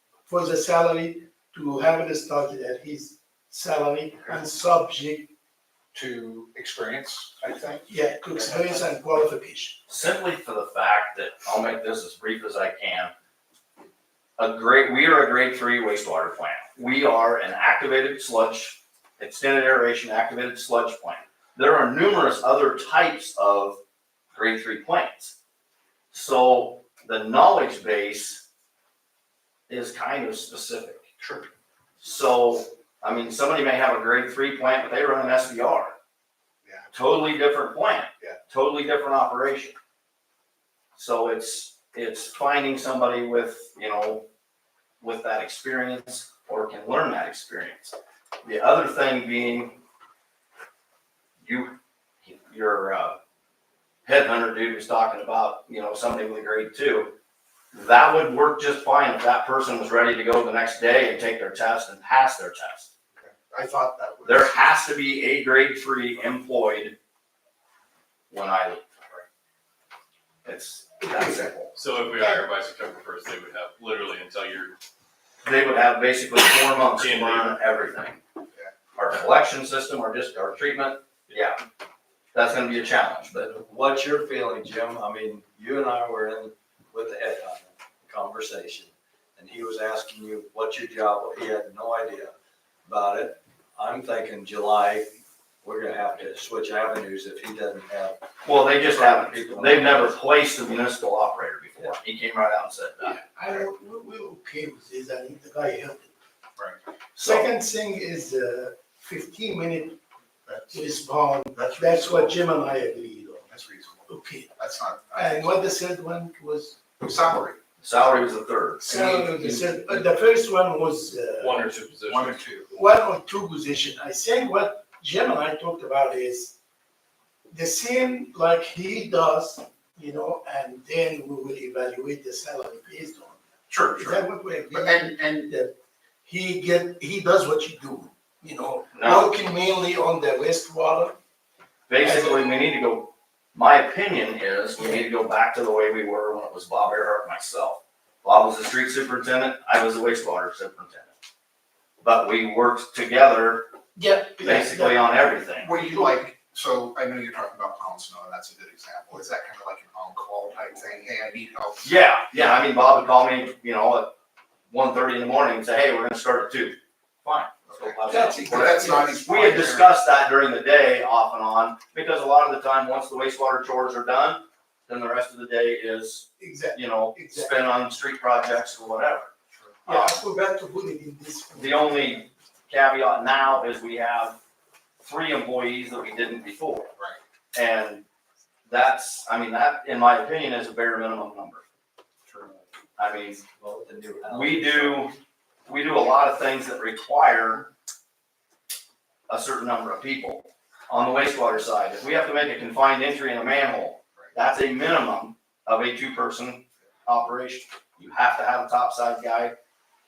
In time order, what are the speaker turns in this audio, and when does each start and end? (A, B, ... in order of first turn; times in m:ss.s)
0:00.3-0:05.3 A
0:05.9-0:08.7 B
0:07.9-0:09.8 A
0:09.9-0:13.1 C
0:14.4-0:23.8 C
0:24.4-0:25.3 C
0:26.1-0:28.4 C
0:29.7-0:31.0 C
0:31.2-0:31.5 B
0:32.0-0:36.0 C
0:36.6-0:36.9 B
0:36.9-0:39.8 C
0:41.0-0:44.3 C
0:45.0-0:49.8 C
0:51.4-0:53.2 C
0:54.1-0:57.1 C
0:57.7-1:02.9 C
1:03.2-1:04.7 B
1:04.2-1:07.0 C
1:08.3-1:08.8 C
1:10.4-1:11.7 C
1:11.1-1:11.4 A
1:11.8-1:14.8 D
1:15.4-1:18.2 C
1:17.0-1:17.6 D
1:19.0-1:21.6 C
1:22.3-1:23.5 C
1:23.5-1:32.3 E
1:32.8-1:40.2 E
1:38.4-1:43.2 C
1:43.0-1:46.1 A
1:47.2-1:47.5 C
1:47.2-1:50.0 A
1:50.5-1:50.8 B
1:50.7-1:53.5 A
1:51.5-1:52.4 B
1:53.5-1:55.6 B
1:54.1-1:54.5 A
1:55.1-1:56.8 A
1:57.0-1:57.6 B
1:57.8-1:59.2 C
1:58.9-2:01.6 A
1:58.9-1:59.6 B
2:01.4-2:02.4 D
2:02.1-2:02.7 B
2:02.7-2:06.6 A
2:07.5-2:13.4 A
2:13.7-2:15.5 B
2:13.9-2:21.2 A
2:19.0-2:19.3 C
2:21.9-2:31.1 C
2:22.0-2:22.5 A
2:24.8-2:25.0 A
2:32.0-2:33.7 C
2:34.0-2:35.1 A
2:34.4-2:35.7 C
2:35.6-2:42.6 B
2:35.8-2:36.2 A
2:41.8-2:44.1 C
2:44.7-2:59.3 C
2:47.7-2:50.0 B
2:48.0-2:49.4 A
2:56.4-2:57.9 A
2:59.5-2:59.8 B
2:59.9-3:00.2 C
2:59.9-3:02.3 A
3:01.6-3:04.4 C
3:05.0-3:06.9 C
3:07.5-3:08.0 C
3:08.7-3:11.6 C
3:12.3-3:12.6 B
3:13.0-3:13.4 C
3:13.6-3:15.1 E
3:14.3-3:15.2 C
3:15.7-3:17.7 C
3:19.3-3:29.6 C